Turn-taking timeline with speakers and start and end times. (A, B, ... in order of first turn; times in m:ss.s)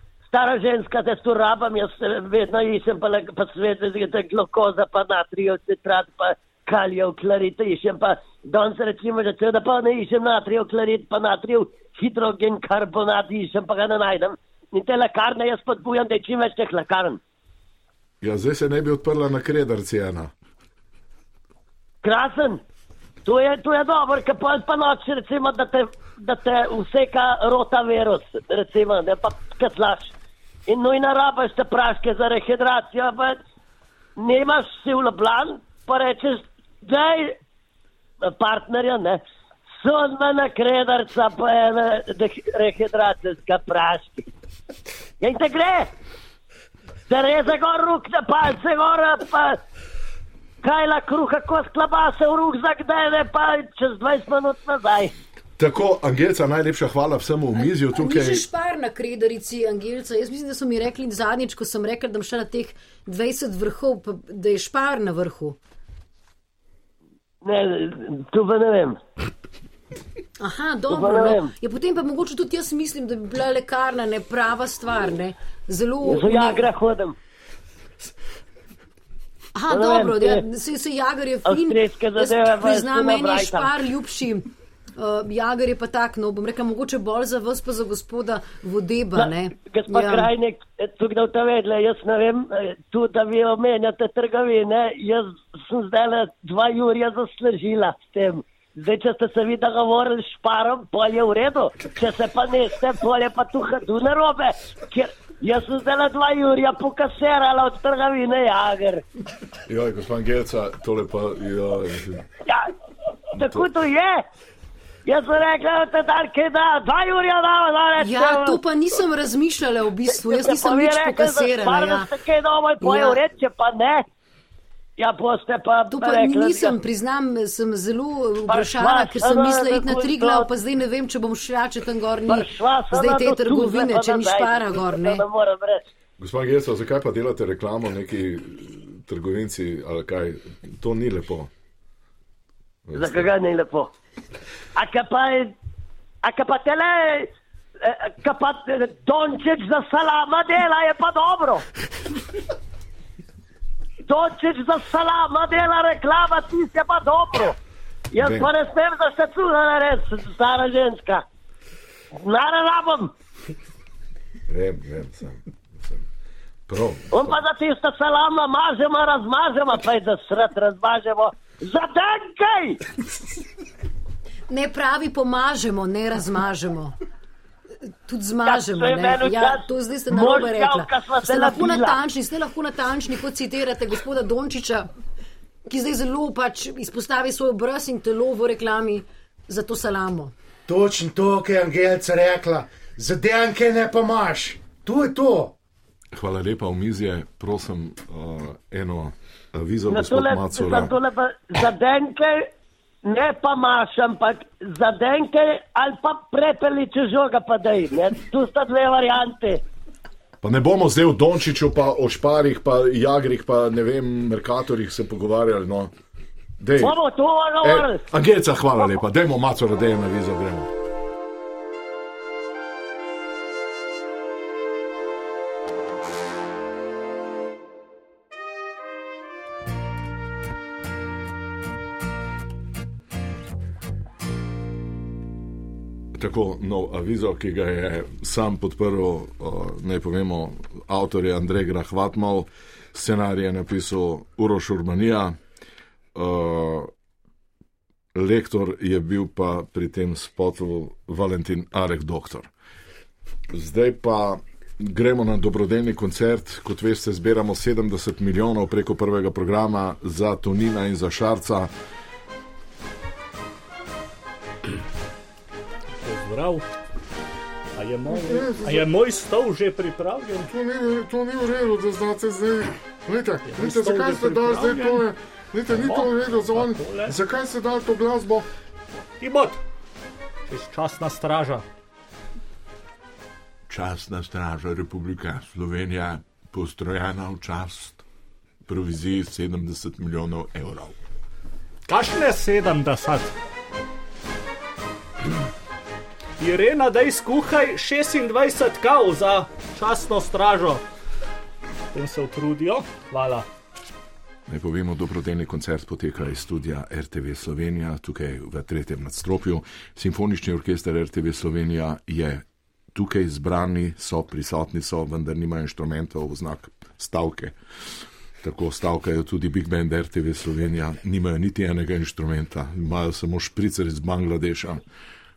0:00.3-0:17.2 A
0:18.2-0:20.3 B
0:22.0-0:22.6 A
0:23.2-0:30.1 A
0:30.7-0:33.4 A
0:34.2-0:37.4 A
0:38.2-0:39.2 A
0:39.8-0:44.3 A
0:45.2-0:45.9 A
0:47.1-0:49.6 A
0:50.6-0:55.1 A
0:55.6-0:58.4 B
0:57.6-1:05.6 C
1:07.4-1:09.0 A
1:10.4-1:16.6 C
1:10.9-1:11.5 A
1:16.0-1:17.2 A
1:19.5-1:30.3 C
1:19.7-1:20.4 A
1:21.4-1:23.7 A
1:29.2-1:49.0 A
1:49.7-1:52.2 B
1:52.4-1:52.7 A
1:53.3-1:54.2 A
1:53.4-1:53.6 B
1:55.0-1:58.6 A
1:58.0-2:02.1 C
2:00.1-2:04.0 A
2:02.8-2:03.2 C
2:05.0-2:06.8 A
2:05.9-2:15.2 C
2:08.5-2:10.5 A
2:12.3-2:15.8 A
2:16.2-2:21.5 B
2:22.9-2:23.3 B
2:23.0-2:23.9 A
2:24.8-2:25.5 A
2:26.2-2:27.3 A
2:27.8-2:31.6 A
2:34.0-2:37.6 A
2:38.1-2:41.2 A
2:38.2-2:38.5 B
2:42.2-2:43.1 A
2:44.5-2:46.0 B
2:46.7-2:47.4 B
2:47.1-2:52.8 A
2:54.5-2:56.9 C
2:58.0-3:04.9 C
2:58.4-3:02.0 A
3:05.7-3:10.3 C
3:10.7-3:15.5 D
3:16.1-3:20.9 B
3:19.9-3:22.5 A
3:23.0-3:29.6 A
3:30.4-3:35.9 B
3:36.6-3:37.0 B
3:36.8-3:38.0 A
3:37.6-3:40.7 B
3:56.1-4:05.4 B
4:06.1-4:06.9 B
4:08.1-4:12.5 B
4:13.5-4:21.7 B
4:26.0-4:26.6 E
4:27.8-4:30.5 E
4:28.1-4:28.9 F
4:30.5-4:38.4 F
4:33.5-4:35.0 E
4:35.7-4:37.2 E
4:39.2-4:39.6 E
4:40.5-4:41.6 E
4:43.7-4:48.0 B
4:48.6-4:51.0 B
4:51.9-4:53.3 E
4:56.4-5:00.8 E
5:01.9-5:03.5 E
5:04.5-5:17.5 B
5:18.4-5:24.8 B